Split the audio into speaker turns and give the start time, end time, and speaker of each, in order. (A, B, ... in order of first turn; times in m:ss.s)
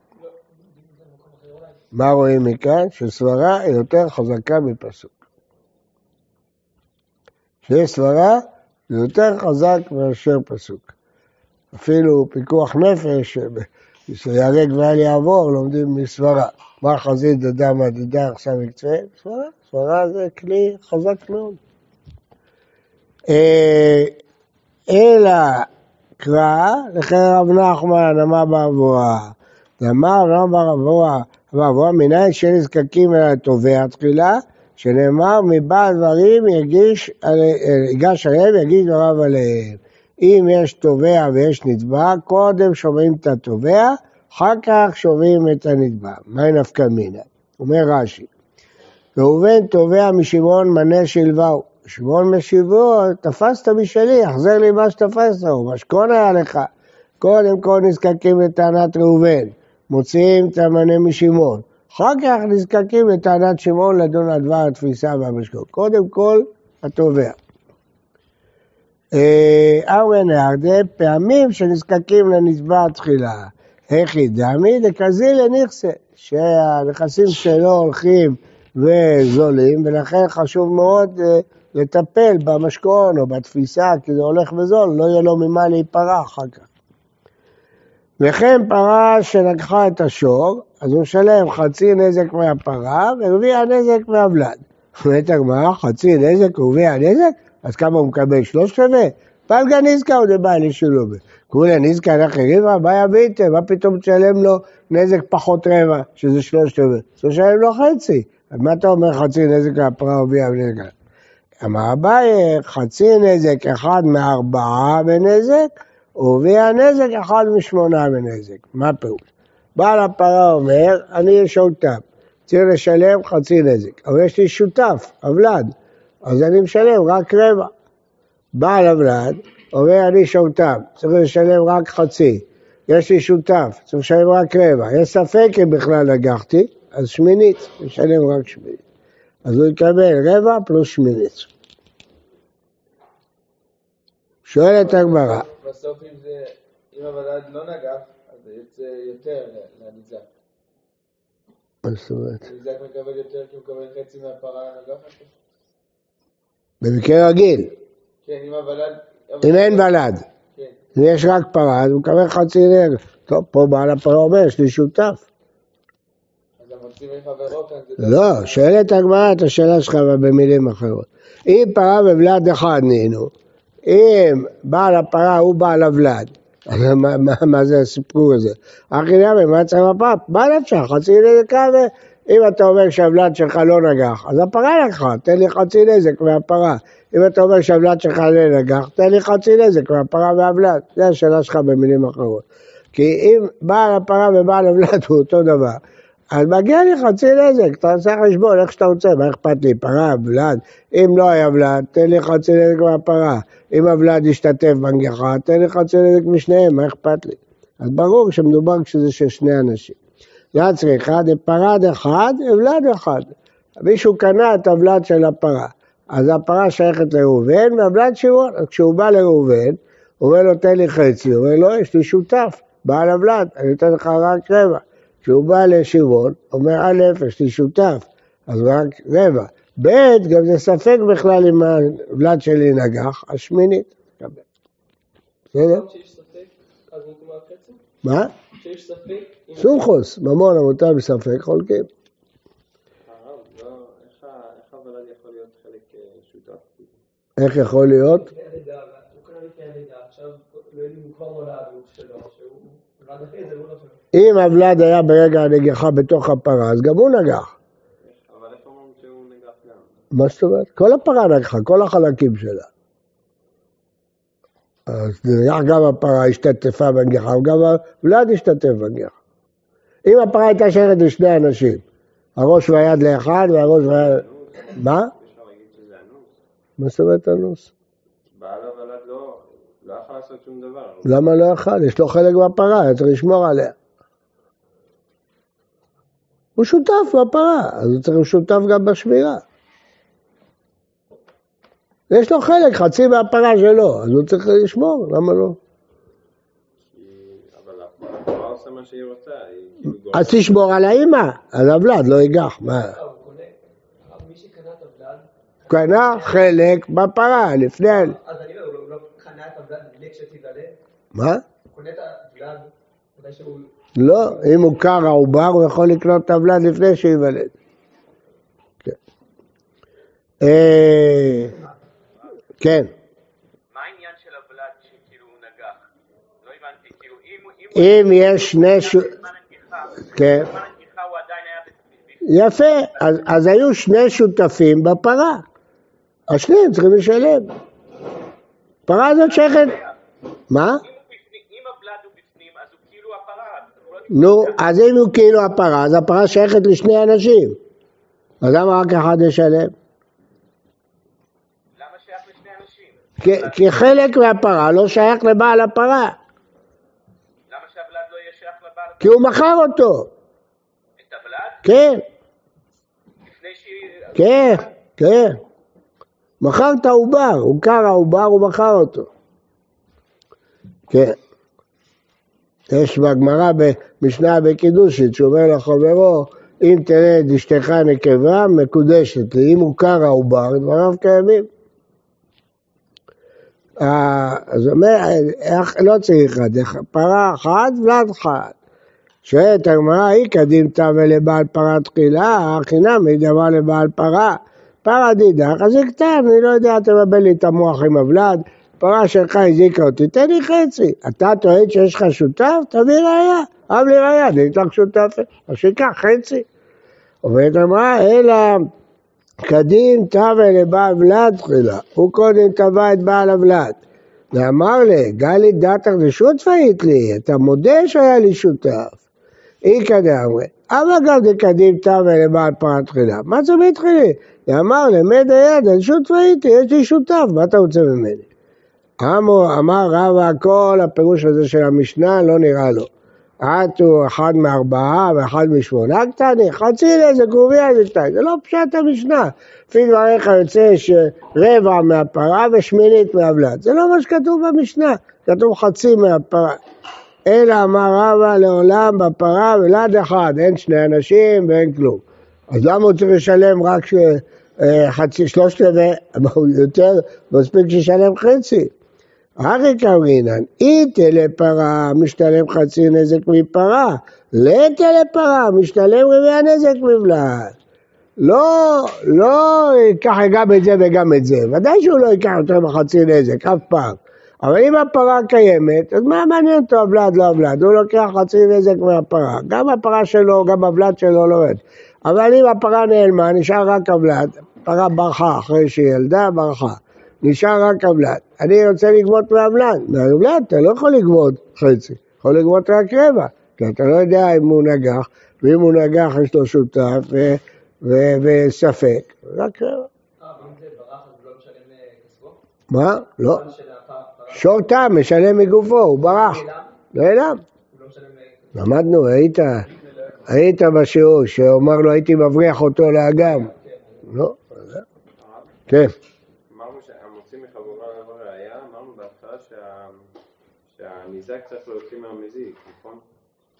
0:00.7-0:01.8 A
0:01.9-0:05.2 B
0:07.6-0:10.9 B
0:11.7-0:21.6 B
0:23.3-0:24.1 B
0:24.9-0:25.7 B
0:26.2-0:48.3 B
0:49.2-0:56.7 B
0:57.2-1:07.4 B
1:09.1-1:26.7 B
1:28.2-1:50.9 B
1:51.6-2:05.7 B
2:06.2-2:07.7 B
2:08.5-2:18.8 B
2:19.4-2:21.5 B
2:24.4-2:25.5 B
2:24.8-2:30.3 C
2:31.8-2:32.4 B
2:32.4-2:35.3 C
2:36.8-2:37.7 B
2:38.2-2:39.9 C
2:39.4-2:40.2 B
2:40.9-2:45.2 B
2:46.6-2:48.7 C
2:48.0-2:53.3 B
2:53.8-3:15.8 B
3:16.3-3:30.0 B
3:30.5-3:54.3 B
3:55.5-3:55.9 B
3:55.7-3:57.8 A
3:58.0-3:58.3 B
3:58.5-3:59.8 A
3:59.6-4:01.9 B
4:03.0-4:07.0 D
4:07.4-4:08.3 B
4:08.0-4:14.0 A
4:14.1-4:17.5 B
4:18.0-4:20.0 D
4:20.1-4:22.7 B
4:24.9-4:29.1 B
4:30.0-4:31.8 B
4:32.4-4:34.2 B
4:33.3-4:36.4 D
4:34.8-4:35.1 B
4:36.8-4:37.7 B
4:38.4-4:41.2 D
4:41.0-4:43.7 B
4:46.6-4:49.4 B
4:52.1-4:55.6 B
4:56.9-5:00.6 D
5:00.1-5:03.0 B
5:02.9-5:06.5 A
5:05.7-5:08.2 B
5:07.8-5:10.8 A
5:11.1-5:11.4 B
5:11.7-5:13.7 A
5:14.0-5:17.5 B
5:20.4-5:21.6 B
5:22.6-5:22.9 B
5:23.7-5:25.9 E
5:26.4-5:32.2 E
5:27.7-5:29.1 B
5:30.0-5:30.5 B
5:32.2-5:35.4 B
5:36.3-5:37.5 B
5:38.9-5:39.8 B
5:40.5-5:40.8 B
5:40.8-5:44.2 E
5:44.1-5:47.6 B
5:48.4-5:49.7 B
5:51.8-5:53.5 E
5:53.2-5:56.2 B
5:57.5-5:59.0 E
5:59.0-6:00.1 B
6:01.0-6:01.6 E
6:01.6-6:02.0 B
6:03.4-6:03.8 E
6:04.1-6:05.4 B
6:06.4-6:09.1 B
6:10.9-6:11.2 B
6:12.7-6:21.5 B
6:23.8-6:28.6 B
6:29.2-6:46.4 B
6:47.2-6:48.7 B
6:49.4-6:53.8 B
6:54.3-6:59.0 B
6:59.6-7:08.3 B
7:09.0-7:12.9 B
7:13.4-7:26.6 B
7:27.2-7:38.7 B
7:39.4-7:47.5 B
7:48.2-8:19.9 B
8:20.2-8:22.4 A
8:22.7-8:23.4 B
8:23.2-8:24.5 A
8:24.3-8:27.4 B
8:25.9-8:26.8 A
8:27.7-8:28.8 A
8:28.5-8:29.6 B
8:29.6-8:30.2 A
8:30.3-8:33.5 B
8:33.1-8:34.0 A
8:34.0-8:34.8 B
8:35.2-8:35.5 D
8:36.5-8:40.0 D
8:40.7-8:43.0 D